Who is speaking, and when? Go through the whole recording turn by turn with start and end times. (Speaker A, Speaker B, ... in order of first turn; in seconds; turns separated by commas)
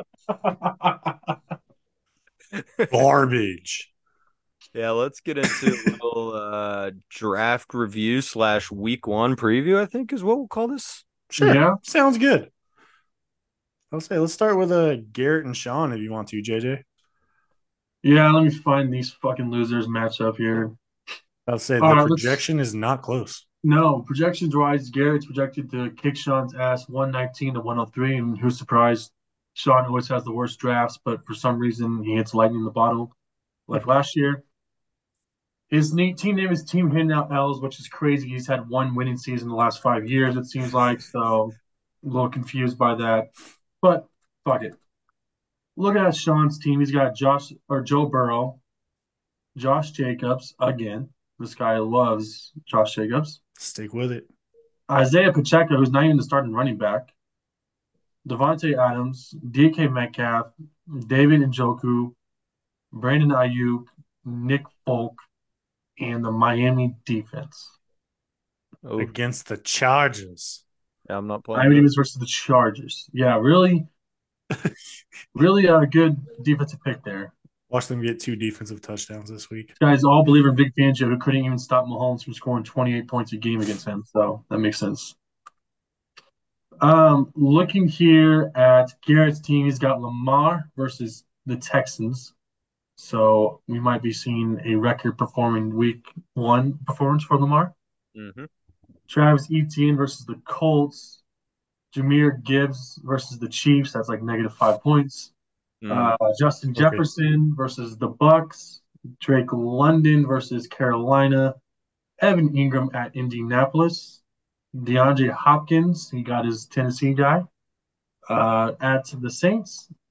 Speaker A: 0.4-1.1, Speaker B: 2.5-2.9, Speaker C: 2.9-3.9, Speaker B: 4.7-11.0, Speaker C: 11.3-12.5, Speaker A: 11.4-11.8, Speaker C: 13.9-16.8, Speaker A: 18.0-20.8, Speaker C: 21.5-23.4, Speaker A: 21.8-22.4, Speaker A: 23.6-33.1, Speaker A: 33.7-34.4, Speaker A: 35.7-44.8, Speaker A: 45.8-48.6, Speaker A: 49.5-53.4, Speaker C: 53.6-54.3, Speaker A: 54.9-57.1, Speaker A: 58.2-62.1, Speaker A: 62.9-65.2, Speaker A: 66.0-67.8, Speaker B: 68.8-69.1, Speaker C: 69.0-70.6, Speaker B: 71.1-71.9, Speaker A: 71.5-73.9, Speaker A: 75.3-77.3, Speaker C: 77.7-79.7, Speaker A: 79.8-85.2, Speaker A: 86.8-92.3, Speaker A: 93.0-97.7, Speaker B: 98.2-98.5, Speaker A: 99.1-101.2, Speaker A: 101.9-105.3, Speaker B: 105.8-106.2, Speaker A: 105.9-111.6, Speaker C: 106.8-107.0, Speaker A: 112.2-114.2, Speaker A: 114.7-117.5, Speaker A: 118.3-119.9